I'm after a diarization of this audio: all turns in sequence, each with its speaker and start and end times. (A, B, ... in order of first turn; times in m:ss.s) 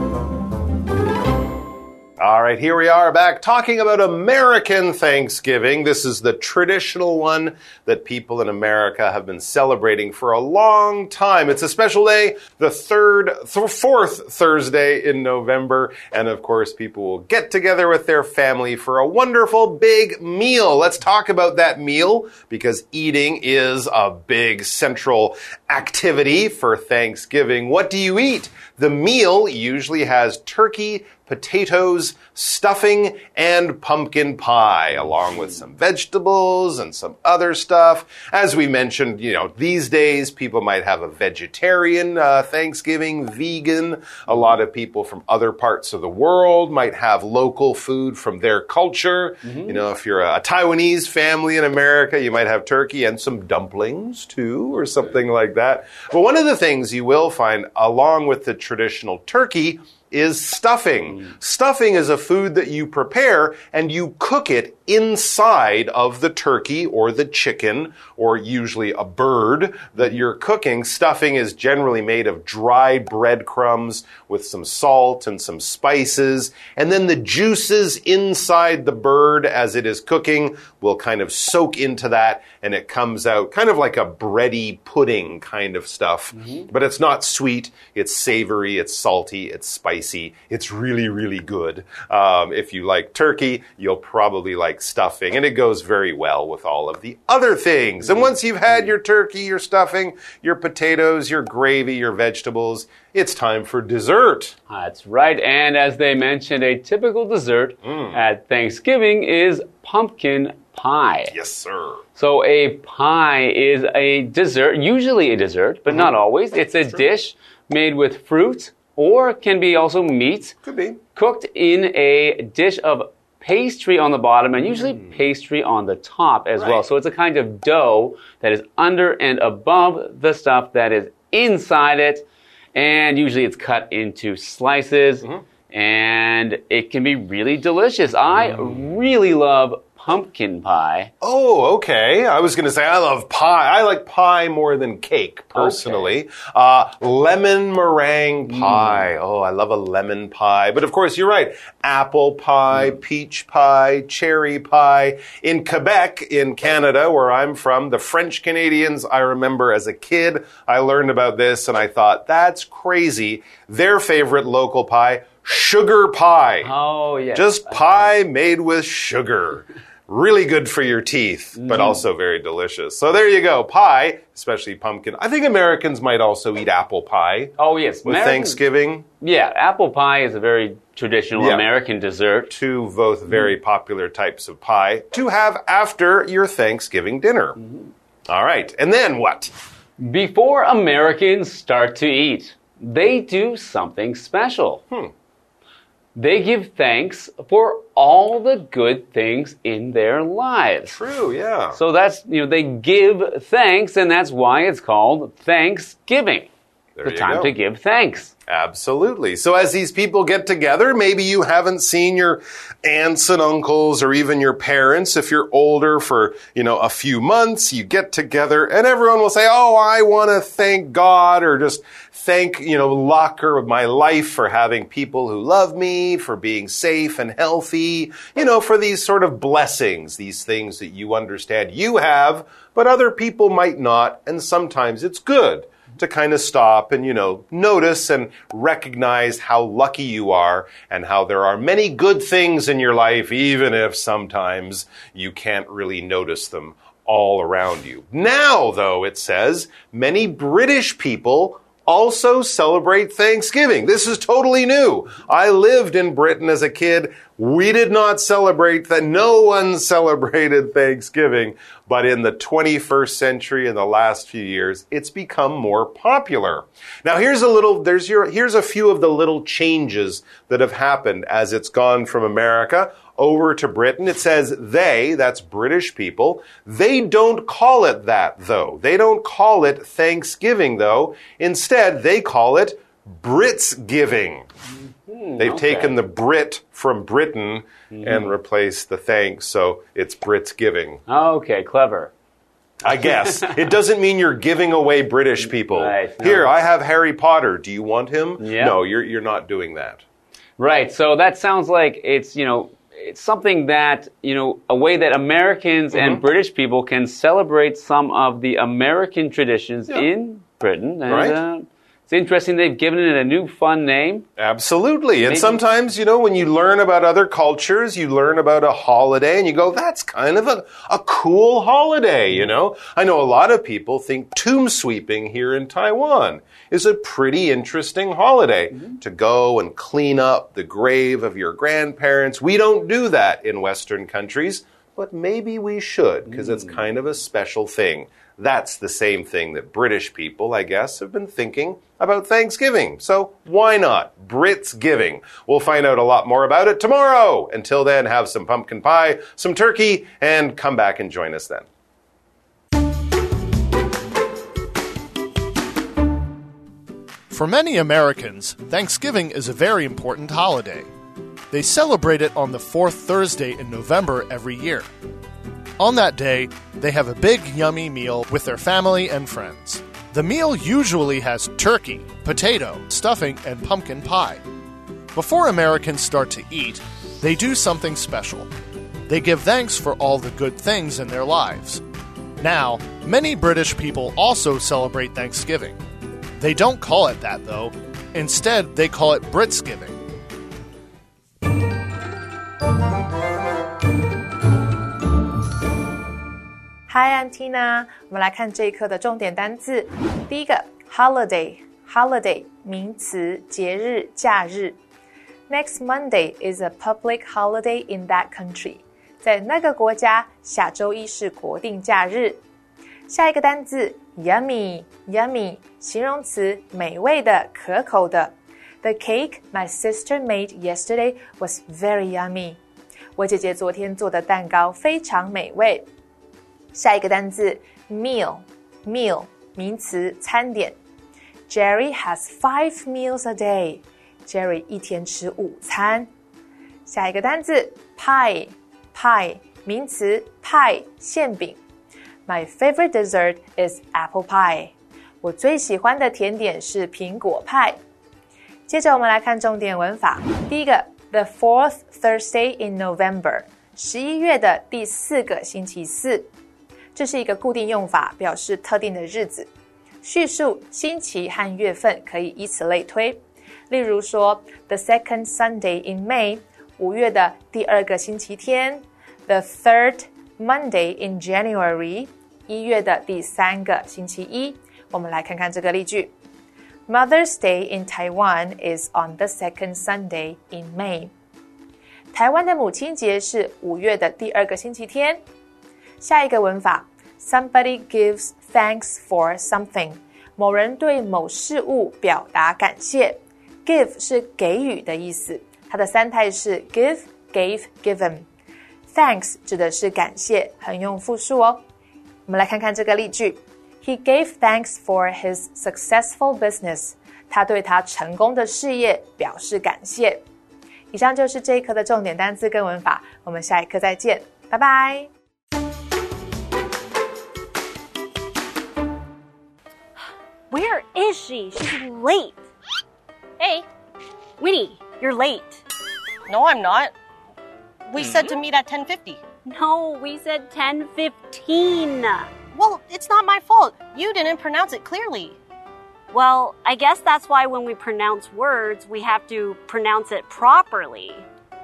0:02.2-1:44.6 A
0:44.3-0:44.5 B
0:49.4-0:49.8 B
1:38.0-1:38.9 B
1:44.7-1:51.3 B
1:47.8-1:48.2 A
1:51.3-1:52.0 A
1:52.2-2:00.6 B
1:55.9-1:56.1 A
2:00.6-2:01.0 A
2:01.1-2:21.1 B
2:06.6-2:06.8 A
2:21.2-2:46.7 A
2:25.5-2:26.1 B
2:28.5-2:29.1 B
2:46.6-2:48.1 B
2:47.3-2:59.0 A
2:51.6-2:52.0 B
2:57.6-2:58.6 B
2:59.2-3:02.5 B
3:01.3-3:01.7 A
3:02.5-3:07.6 A
3:08.3-3:09.5 A
3:10.0-3:14.8 B
3:16.2-3:21.0 B
3:20.9-3:21.8 A
3:21.7-3:26.5 B
3:27.0-3:27.5 A
3:27.0-3:28.3 B
3:28.5-4:44.5 A
4:44.8-4:46.0 B
4:45.4-4:51.0 A
4:47.9-4:48.3 B
4:51.1-4:52.1 B
4:52.8-5:00.0 A
4:52.9-4:53.7 B
4:55.4-4:56.5 B
4:58.4-4:58.8 B
5:00.6-5:14.2 B
5:05.9-5:06.2 A
5:11.1-5:11.4 A
5:14.4-5:51.6 A
5:15.2-5:15.6 B
5:36.3-5:36.8 B
5:57.3-6:00.9 C
6:01.5-6:04.9 C
6:05.8-6:14.4 C
6:15.1-6:18.5 C
6:19.1-6:21.8 C
6:22.4-6:25.8 C
6:26.4-6:30.0 C
6:36.9-6:44.8 D
6:45.5-6:52.4 D
6:53.1-7:02.6 D
7:03.2-7:05.8 D
7:06.7-7:10.8 D
7:11.5-7:16.1 D
7:16.8-7:21.6 D
7:22.2-7:27.8 D
7:28.7-7:36.3 D
7:36.9-7:39.5 D
7:40.0-7:56.1 D
7:56.9-8:01.1 D
8:02.1-8:05.2 D
8:06.0-8:18.2 D
8:18.9-8:21.6 D
8:22.3-8:30.2 D
8:30.9-8:35.1 D
8:40.5-8:42.4 E
8:44.4-8:45.6 E
8:46.3-8:46.9 F
8:47.9-8:49.2 F
8:49.4-8:52.3 E
8:52.5-8:55.4 F
8:56.1-9:01.2 E